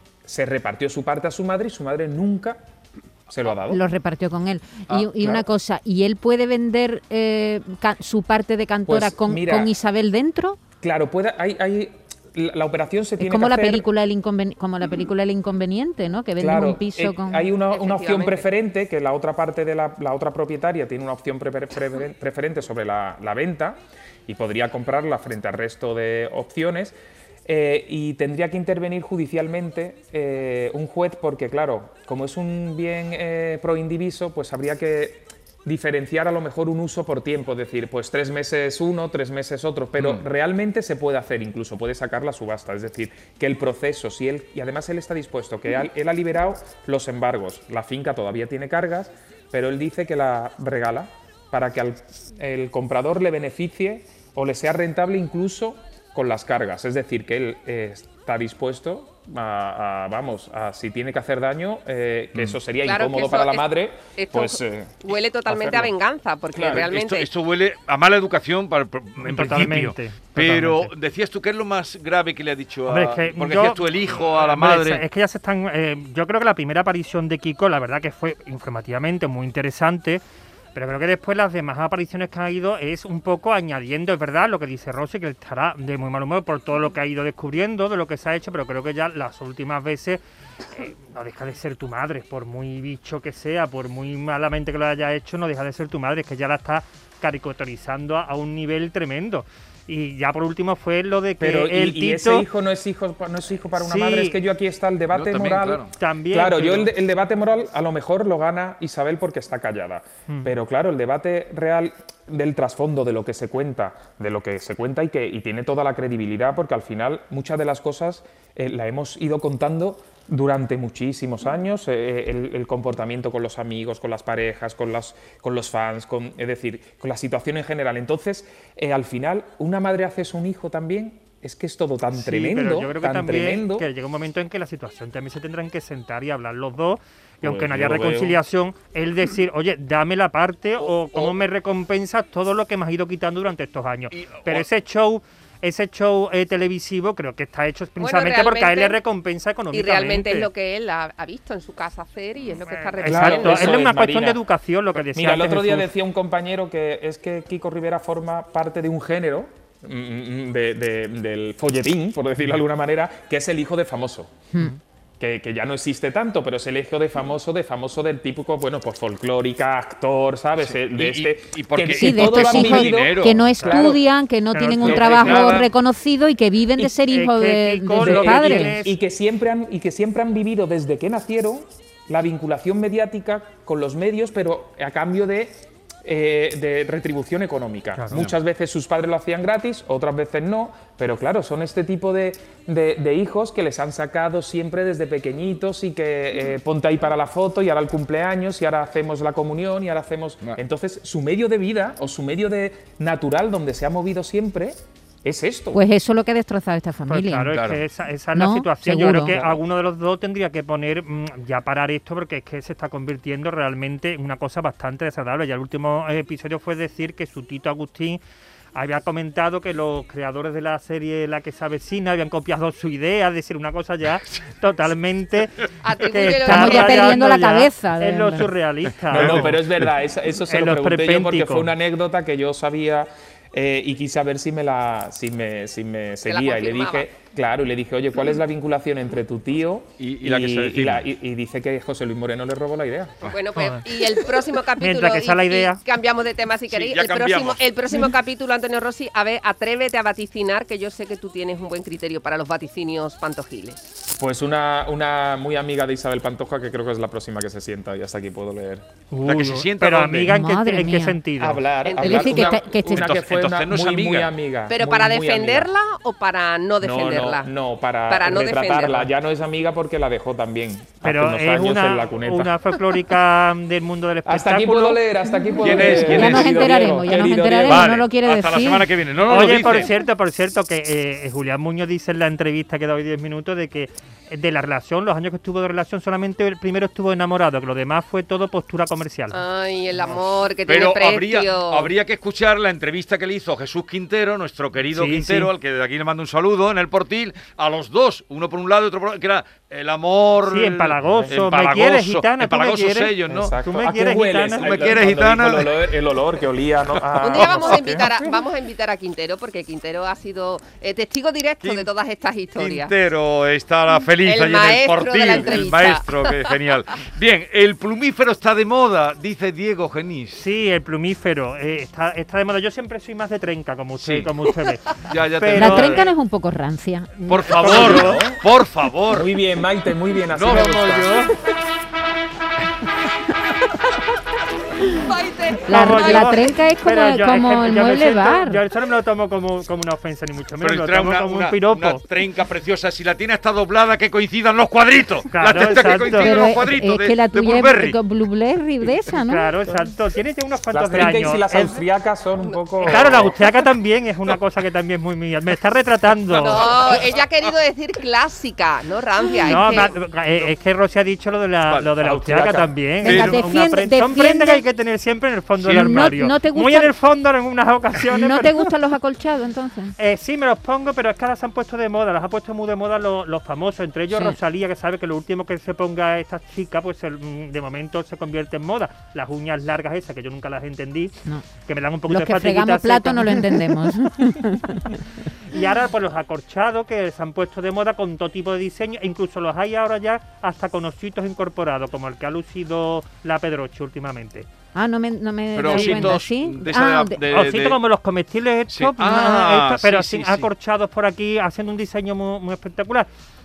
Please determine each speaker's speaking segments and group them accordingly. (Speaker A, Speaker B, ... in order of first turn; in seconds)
Speaker A: 0.2-2.6, 3.3-3.8, 8.9-9.7, 10.8-13.8, 16.4-65.9, 66.5-66.9, 101.4-133.9, 137.4-138.4, 153.0-154.4, 155.1-164.4, 165.2-174.0, 178.0-205.8, 229.1-243.2, 254.1-258.9, 261.4-265.7, 266.8-272.5, 274.2-278.0, 303.3-308.3, 327.7-328.4, 329.1-331.3, 350.7-353.3, 362.0-362.7
Speaker B: 3.6-10.6, 13.2-17.5, 171.9-178.8, 205.7-207.6, 208.3-209.6, 226.4-228.5, 260.2-261.2, 262.0-263.1, 275.9-278.9, 325.5-327.1, 335.7-338.6, 346.2-349.5, 363.0-364.6, 365.7-366.9, 368.1-369.9, 374.1-374.4, 382.1-385.1, 394.7-397.2
Speaker C: 17.6-18.5, 62.8-67.3, 148.0-149.0, 149.7-153.8, 225.8-227.2, 236.2-237.1, 243.3-253.8, 261.8-262.5, 264.7-267.5, 268.1-269.1, 289.3-291.9, 307.2-312.9, 314.2-316.4, 334.9-336.5, 356.3-359.9
Speaker D: 66.6-75.0, 105.1-105.9, 144.1-144.7, 170.6-173.5, 174.8-175.7, 207.5-207.8, 229.1-229.5, 240.0-241.0, 246.7-247.6, 259.2-260.3, 262.9-264.3, 275.6-276.7, 277.7-279.9, 290.6-303.5, 304.6-305.9, 307.3-307.8, 311.6-311.9, 312.6-320.4, 324.0-324.3, 325.0-326.0, 327.3-329.3, 330.3-331.2, 340.6-347.9, 356.5-357.1, 363.0-363.4, 365.6-366.1, 395.5-397.8, 398.7-400.5
Speaker E: 69.2-70.9, 72.9-80.2, 80.7-90.2, 90.7-102.5, 103.8-104.4, 106.0-106.9, 132.1-150.5, 152.7-155.9, 174.5-175.6, 176.8-178.9, 207.1-218.2, 218.7-229.6, 230.5-231.7, 243.6-243.8, 244.8-245.8, 259.1-261.6, 271.0-275.0, 279.3-289.4, 294.9-295.5, 300.5-305.0, 320.3-326.1, 327.2-328.2, 335.7-342.0, 345.3-346.3, 349.2-351.8, 352.8-356.8, 359.4-368.7, 370.0-381.1, 381.6-383.6, 385.5-394.5, 395.7-396.1, 397.3-403.1